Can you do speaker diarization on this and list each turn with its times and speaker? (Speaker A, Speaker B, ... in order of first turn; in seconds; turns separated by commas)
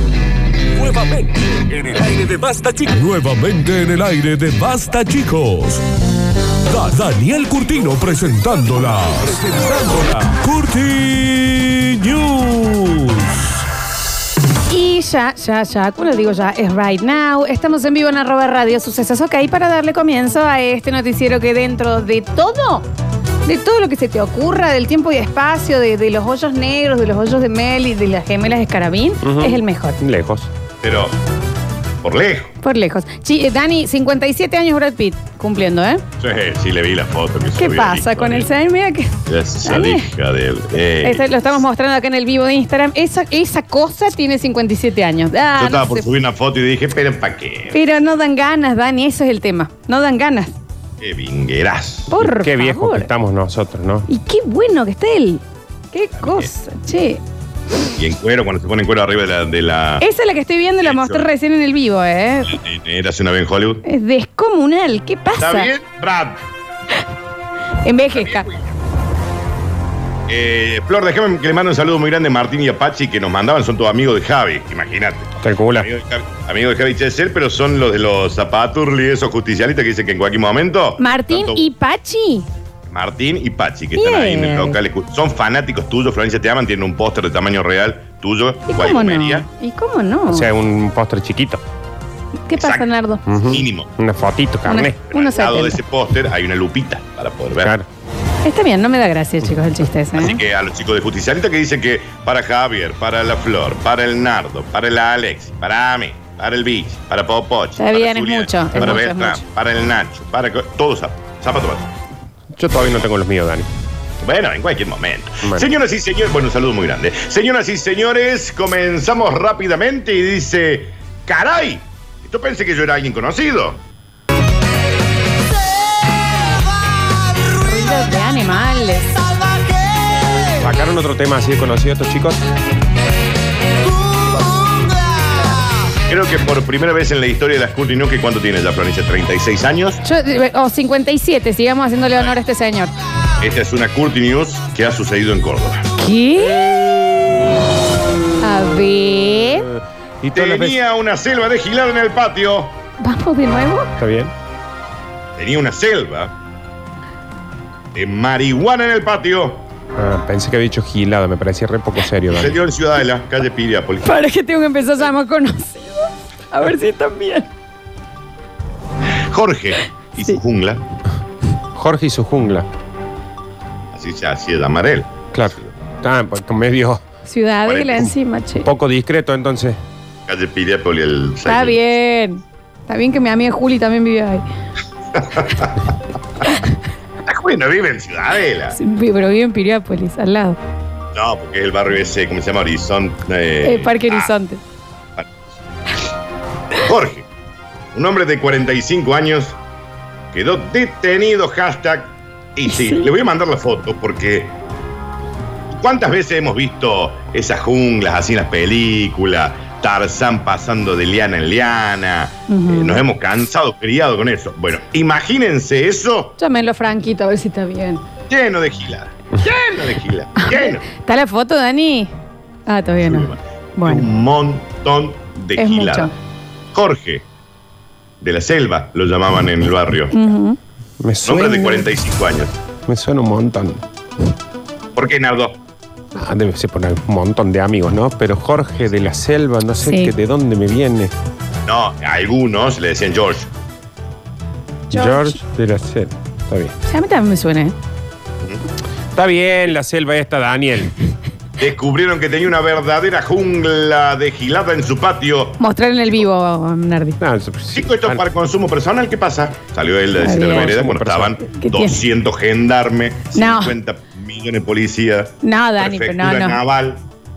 Speaker A: 0.8-5.8, Speaker A: 6.7-13.4, Speaker B: 14.7-22.9, Speaker B: 23.4-30.0, Speaker C: 29.2-30.5, Speaker D: 30.8-31.1, Speaker D: 32.0-32.5, Speaker B: 32.6-36.0, Speaker D: 36.2-38.5, Speaker B: 37.5-40.1, Speaker D: 39.3-41.6, Speaker B: 41.0-46.1, Speaker D: 45.5-47.9, Speaker B: 47.7-50.5, Speaker D: 51.0-52.1, Speaker B: 52.1-53.1, Speaker C: 52.2-54.1, Speaker B: 54.1-57.2, Speaker D: 56.1-56.5, Speaker D: 58.0-60.1, Speaker B: 60.0-62.5, Speaker D: 60.8-61.3, Speaker D: 62.4-63.8, Speaker B: 63.8-65.7, Speaker D: 65.4-66.4, Speaker B: 67.8-68.5, Speaker D: 68.1-68.7, Speaker D: 70.3-81.7, Speaker C: 75.4-75.9, Speaker B: 81.0-82.5, Speaker D: 82.9-89.5, Speaker B: 84.0-84.8, Speaker B: 88.7-90.5, Speaker C: 90.3-91.6, Speaker B: 92.5-93.2, Speaker D: 92.6-92.9, Speaker C: 93.3-95.0, Speaker D: 93.5-93.9, Speaker B: 94.7-95.8, Speaker D: 95.1-97.7, Speaker C: 97.6-97.9, Speaker B: 98.4-100.4, Speaker D: 100.2-111.9, Speaker B: 107.8-109.4, Speaker C: 112.6-113.7, Speaker D: 114.2-123.8, Speaker B: 127.5-129.1, Speaker C: 130.6-132.4, Speaker D: 136.1-140.0, Speaker B: 140.0-142.9, Speaker D: 143.4-145.9, Speaker B: 146.0-147.2, Speaker B: 148.4-149.7, Speaker C: 150.2-150.8, Speaker D: 150.3-152.8, Speaker B: 153.0-153.9, Speaker C: 154.0-154.3, Speaker D: 155.4-156.3, Speaker D: 157.9-159.6, Speaker C: 160.0-162.5, Speaker D: 162.3-164.1, Speaker B: 164.0-167.5, Speaker D: 169.3-170.8, Speaker C: 171.8-172.7, Speaker D: 173.9-175.7, Speaker C: 175.3-177.0, Speaker B: 177.2-178.7, Speaker D: 177.7-178.1, Speaker C: 178.6-179.8, Speaker D: 180.3-181.9, Speaker B: 181.4-184.4, Speaker D: 185.2-185.8, Speaker D: 187.2-188.8, Speaker B: 188.7-190.6, Speaker D: 191.2-194.3, Speaker B: 193.6-194.6, Speaker D: 196.8-197.2, Speaker D: 197.9-199.6, Speaker D: 200.3-204.6, Speaker B: 202.7-203.1, Speaker D: 205.7-216.4, Speaker B: 212.5-213.0, Speaker B: 216.4-218.0, Speaker D: 218.3-220.8, Speaker B: 220.3-222.1, Speaker B: 222.7-224.1, Speaker D: 223.0-226.1, Speaker B: 225.6-226.1, Speaker D: 226.7-227.2, Speaker D: 228.2-230.2, Speaker B: 230.1-230.6, Speaker C: 231.0-231.9, Speaker D: 231.2-232.5, Speaker C: 232.8-233.8, Speaker D: 234.9-235.6, Speaker C: 236.2-241.1, Speaker B: 239.8-240.1, Speaker D: 241.7-243.5, Speaker B: 244.9-245.4, Speaker C: 244.9-246.7, Speaker B: 246.8-247.8, Speaker C: 249.1-250.9, Speaker D: 251.6-256.2, Speaker B: 255.6-257.2, Speaker C: 257.2-258.2, Speaker D: 257.7-267.0, Speaker B: 260.2-260.8, Speaker C: 260.4-261.3, Speaker B: 261.5-262.0, Speaker B: 263.3-263.7, Speaker B: 265.4-266.6